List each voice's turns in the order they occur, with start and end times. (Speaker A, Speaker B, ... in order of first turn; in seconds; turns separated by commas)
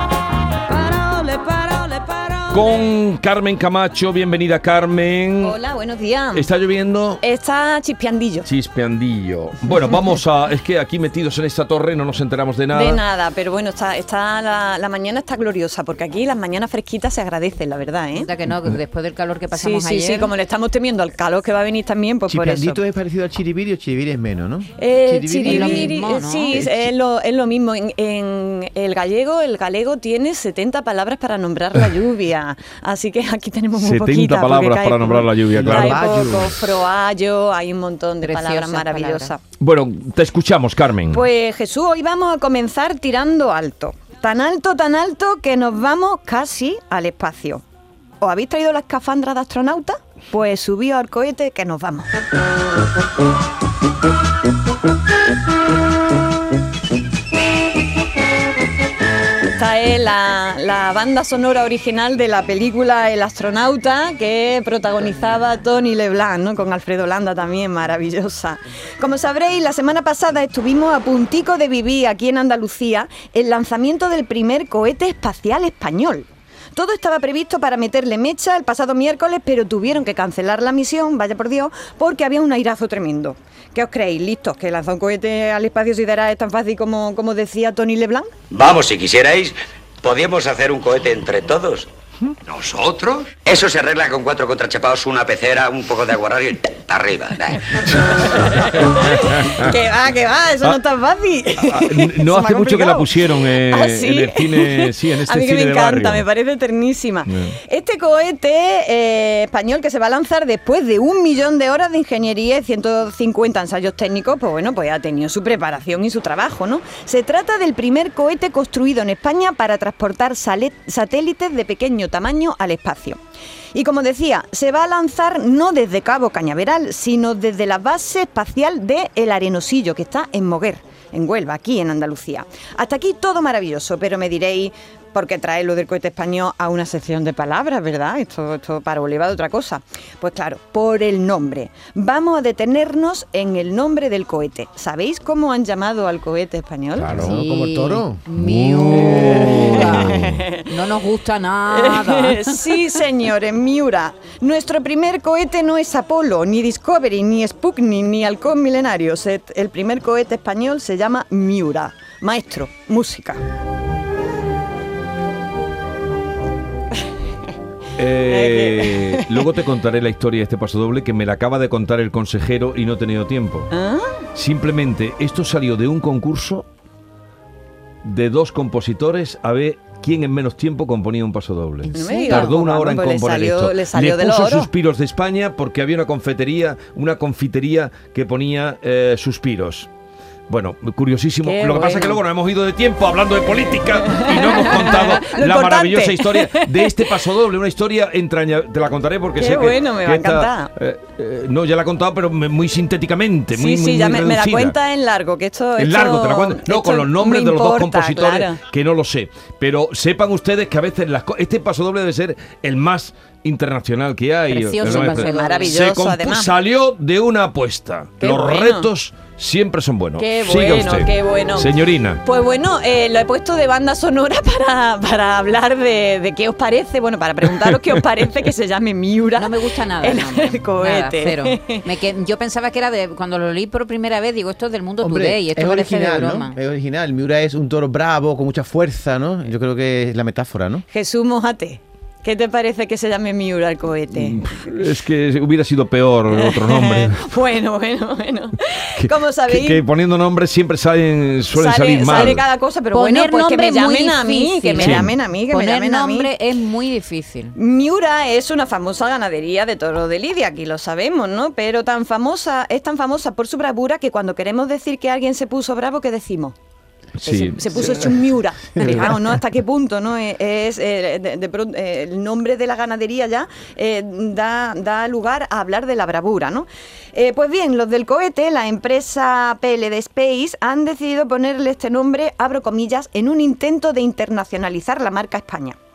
Speaker A: 1.1-2.1, Speaker B: 2.5-5.6, Speaker A: 5.4-6.5, Speaker B: 6.3-7.2, Speaker A: 7.2-8.5, Speaker B: 8.4-13.0, Speaker A: 12.7-18.3, Speaker C: 18.1-20.3, Speaker A: 19.5-22.8, Speaker D: 22.3-25.9, Speaker A: 24.8-39.4, Speaker C: 25.4-26.7, Speaker B: 33.8-36.0, Speaker D: 35.5-36.8, Speaker C: 38.2-39.3, Speaker B: 39.6-41.2, Speaker A: 41.1-47.6, Speaker A: 48.2-52.1, Speaker A: 59.5-88.3, Speaker E: 88.5-91.9, Speaker E: 92.4-97.6, Speaker B: 97.9-99.7, Speaker A: 98.3-123.2, Speaker B: 101.6-106.2, Speaker B: 107.3-107.6, Speaker A: 123.7-147.3, Speaker B: 147.0-147.3, Speaker D: 147.1-148.2, Speaker C: 147.1-152.7, Speaker B: 148.3-150.4, Speaker A: 149.3-150.7, Speaker A: 151.7-163.4, Speaker B: 168.0-173.7, Speaker A: 168.2-169.4, Speaker A: 173.7-174.2, Speaker B: 174.3-176.7, Speaker B: 178.0-189.9, Speaker C: 181.9-182.5, Speaker A: 181.9-184.7, Speaker B: 190.5-204.8, Speaker A: 191.4-192.2, Speaker A: 194.0-197.2, Speaker A: 199.4-200.7, Speaker A: 203.5-208.6, Speaker B: 205.8-222.2, Speaker C: 214.5-215.8, Speaker A: 214.8-216.5, Speaker A: 218.2-218.9, Speaker A: 220.2-221.7, Speaker A: 222.2-231.9, Speaker C: 229.4-236.6, Speaker D: 235.0-240.8, Speaker A: 240.9-244.5, Speaker B: 244.1-247.2, Speaker A: 246.3-249.8, Speaker B: 249.0-252.4, Speaker A: 251.5-256.3, Speaker C: 252.9-257.6, Speaker B: 254.8-255.1, Speaker A: 257.6-266.6, Speaker B: 267.2-268.2, Speaker A: 267.2-285.8, Speaker B: 268.8-269.2